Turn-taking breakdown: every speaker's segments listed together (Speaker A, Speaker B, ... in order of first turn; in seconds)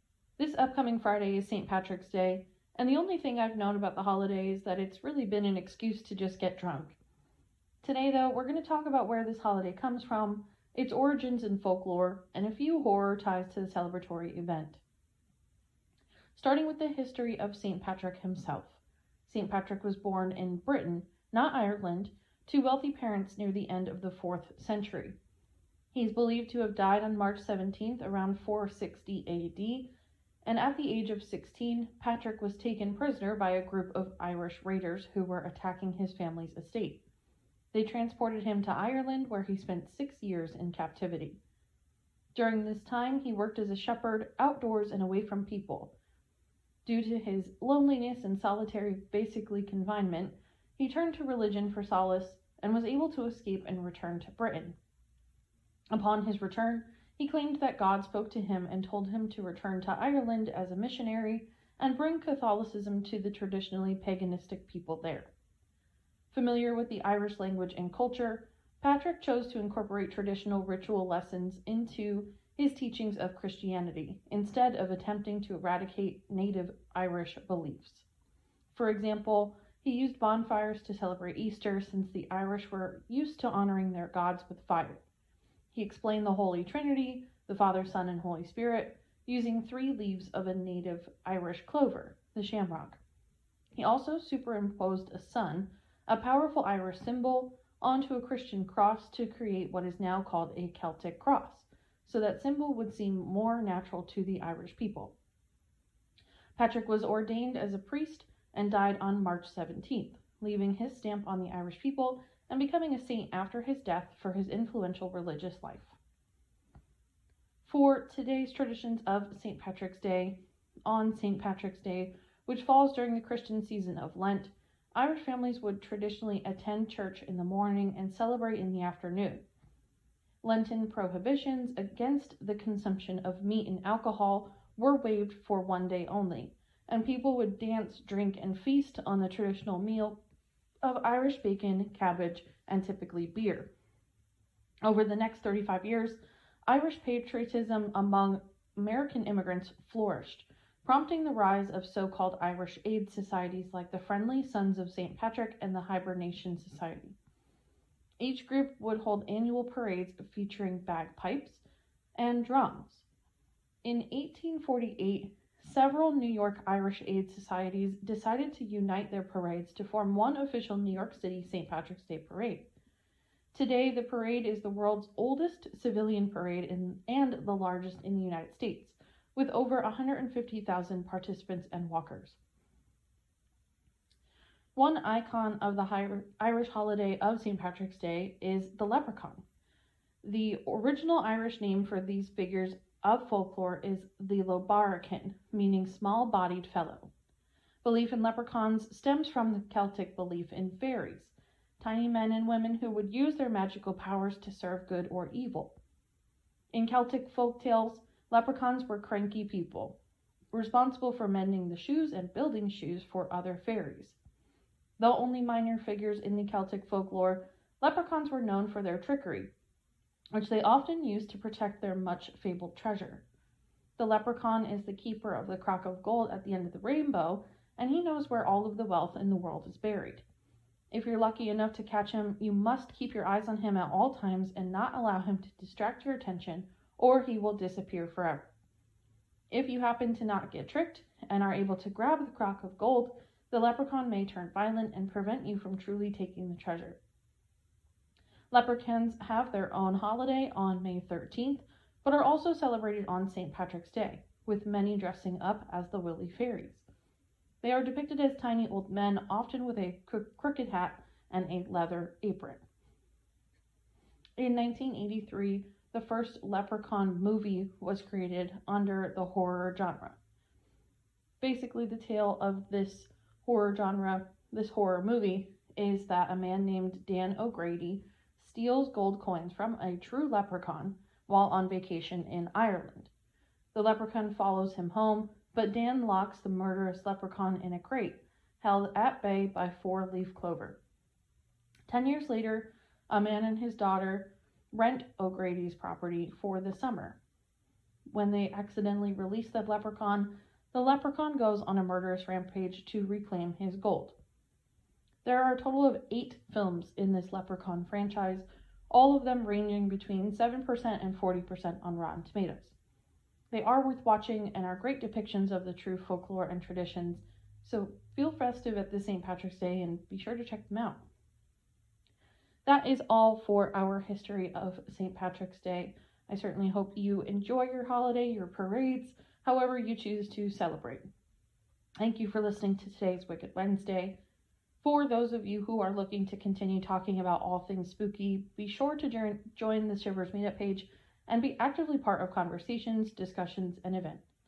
Speaker A: 0.4-7.0, 7.8-14.8, 16.3-25.2, 25.9-29.9, 30.4-37.0, 37.7-41.4, 42.3-45.9, 46.8-54.8, 55.9-65.3, 66.3-78.0, 78.7-85.0, 85.7-93.0, 93.8-105.2, 106.5-116.0, 117.6-129.4, 130.4-140.2, 140.8-143.7, 144.8-157.2, 158.2-161.6, 162.2-163.1, 163.8-172.7, 173.5-182.4, 184.7-189.4, 190.2-197.1, 197.8-205.8, 206.7-210.0, 210.5-214.2, 215.0-219.5, 220.3-223.2, 224.0-230.2, 230.9-238.5, 239.5-247.0, 248.5-256.9, 257.6-262.6, 264.4-270.2, 271.4-283.1, 283.7-290.8, 291.9-297.2, 298.1-304.2, 305.2-312.7, 313.5-321.0, 322.6-331.1, 332.0-334.2, 334.8-344.2